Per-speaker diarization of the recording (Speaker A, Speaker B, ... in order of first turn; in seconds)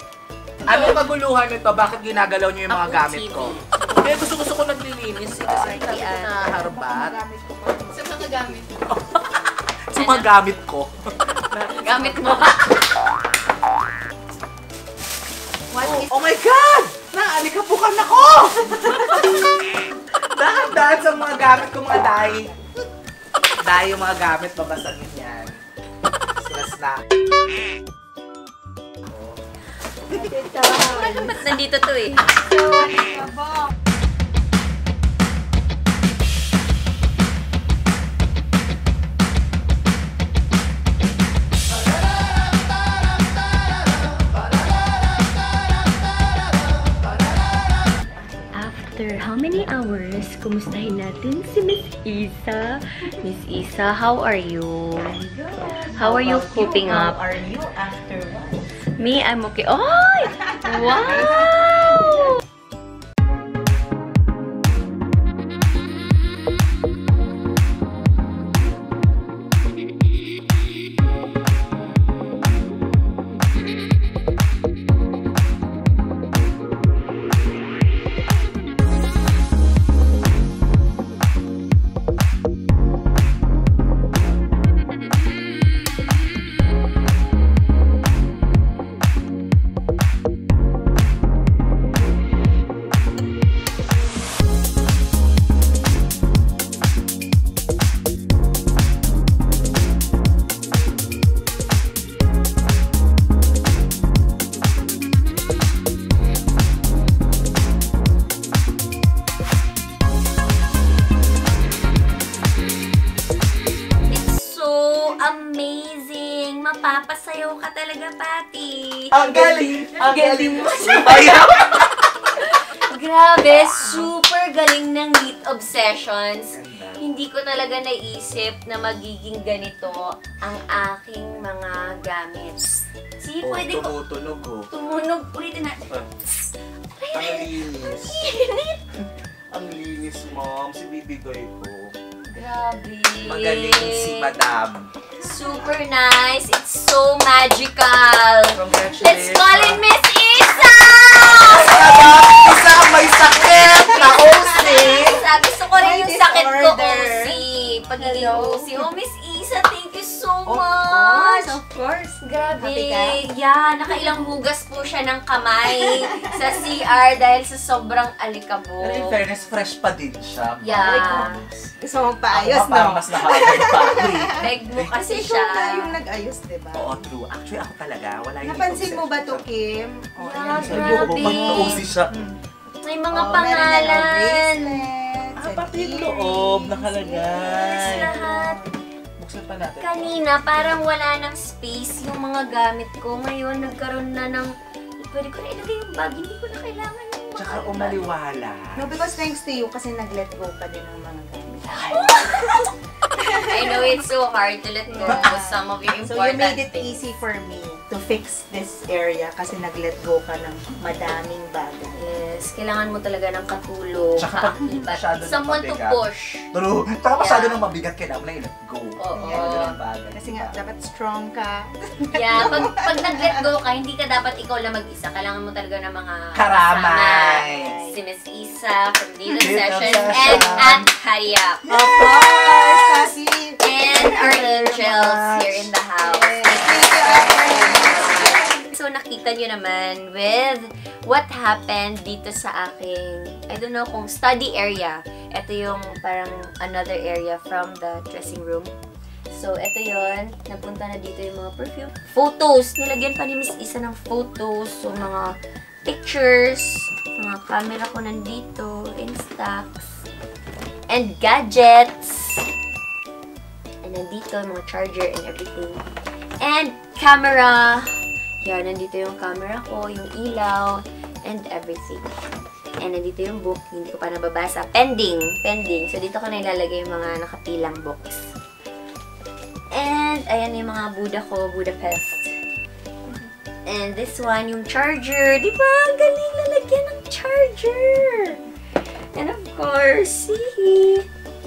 Speaker A: 0.6-7.2, 8.8-12.6, 15.8-19.4, 20.4-22.5, 23.6-25.6, 26.4-27.0, 119.1-122.1, 126.5-127.0, 133.4-134.7, 137.1-138.3, 139.5-141.9, 143.2-144.9, 148.5-149.8, 151.3-155.2, 168.8-171.2, 172.3-174.9, 176.7-179.4, 180.4-182.1, 185.4-188.1, 189.2-190.8, 197.4-199.3, 214.2-216.0, 216.5-220.6, 222.3-222.7, 226.3-227.7, 229.4-230.9, 231.7-232.4, 234.3-234.7, 235.4-235.7
Speaker B: 2.7-3.8, 5.4-6.5, 9.9-10.3, 11.7-12.8, 30.2-32.2, 48.5-55.2, 55.8-57.2, 59.0-62.4, 114.1-121.6, 122.4-133.9, 134.7-138.8, 142.3-144.3, 145.2-169.4, 170.6-171.4, 174.4-176.0, 180.2-181.9, 182.8-184.8, 187.5-188.6, 189.8-198.1, 201.7-202.7, 203.2-207.2, 211.9-216.5, 217.1-217.6, 219.0-219.7, 222.1-231.7, 232.4-248.7, 249.3-260.0, 260.9-262.5, 263.8-265.8, 266.4-267.9, 268.4-272.1, 272.8-278.3, 279.7-282.3, 283.6-288.4, 289.1-291.1
Speaker C: 5.9-8.7, 15.7-16.1, 30.1-31.4, 32.2-33.6, 55.2-58.6, 60.2-62.2, 119.3-120.6, 123.8-124.1, 154.1-157.4, 158.0-158.9, 160.4-161.6, 162.6-163.2, 165.7-166.5, 170.8-177.0, 178.4-182.3, 183.1-188.7, 198.8-203.9, 204.9-211.9, 219.1-223.5, 229.4-230.7, 231.7-235.4, 236.0-238.6